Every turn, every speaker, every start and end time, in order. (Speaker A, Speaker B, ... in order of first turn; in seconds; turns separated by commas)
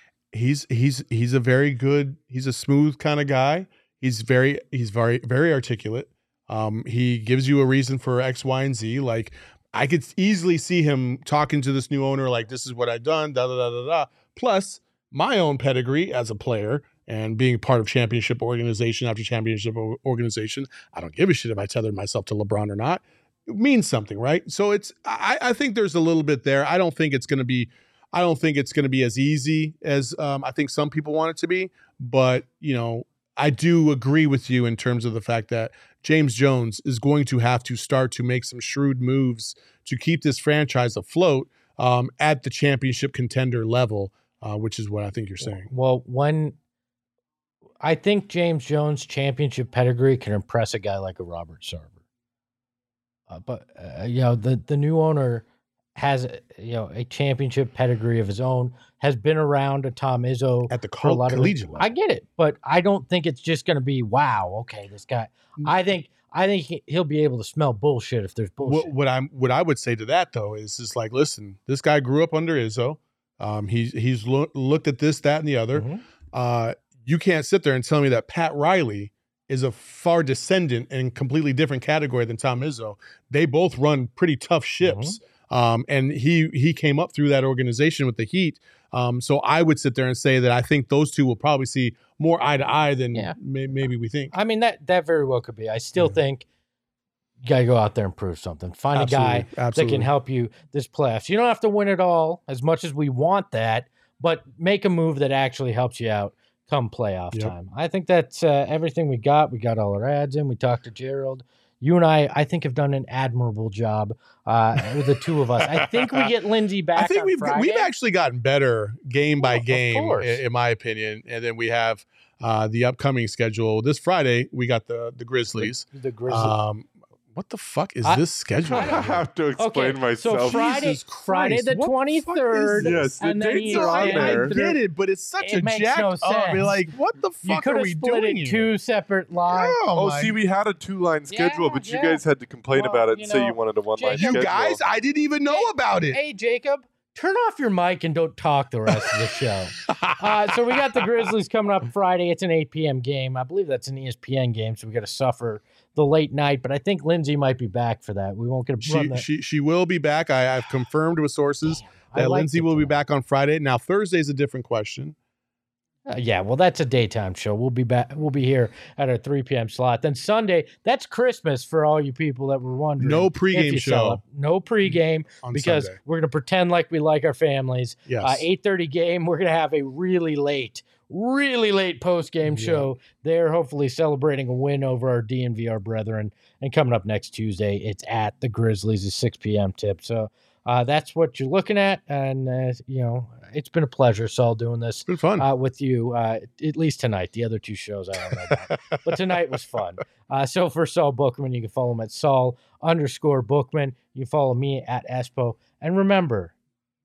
Speaker A: 0.3-45.7, Speaker B: 45.4-46.6, Speaker B: 47.8-52.0, Speaker B: 53.3-68.9, Speaker A: 60.7-61.9, Speaker A: 68.6-94.3, Speaker B: 75.8-76.0, Speaker B: 84.8-85.2, Speaker B: 94.3-96.5, Speaker B: 97.4-117.9, Speaker A: 98.9-100.1, Speaker A: 115.8-116.3, Speaker A: 117.0-129.3, Speaker B: 119.4-120.4, Speaker B: 125.5-126.5, Speaker B: 128.0-134.8, Speaker C: 128.6-131.0, Speaker A: 130.4-138.7, Speaker C: 132.8-134.5, Speaker B: 135.4-136.8, Speaker B: 137.4-139.8, Speaker A: 139.5-140.4, Speaker C: 139.9-144.8, Speaker B: 141.3-144.5, Speaker A: 144.1-146.2, Speaker B: 145.5-159.3, Speaker A: 149.8-151.3, Speaker A: 158.8-165.2, Speaker B: 161.7-163.0, Speaker B: 166.1-206.6, Speaker A: 173.0-174.2, Speaker A: 174.8-176.0, Speaker A: 178.1-178.4, Speaker A: 182.4-182.9, Speaker A: 195.1-195.5, Speaker A: 198.3-199.3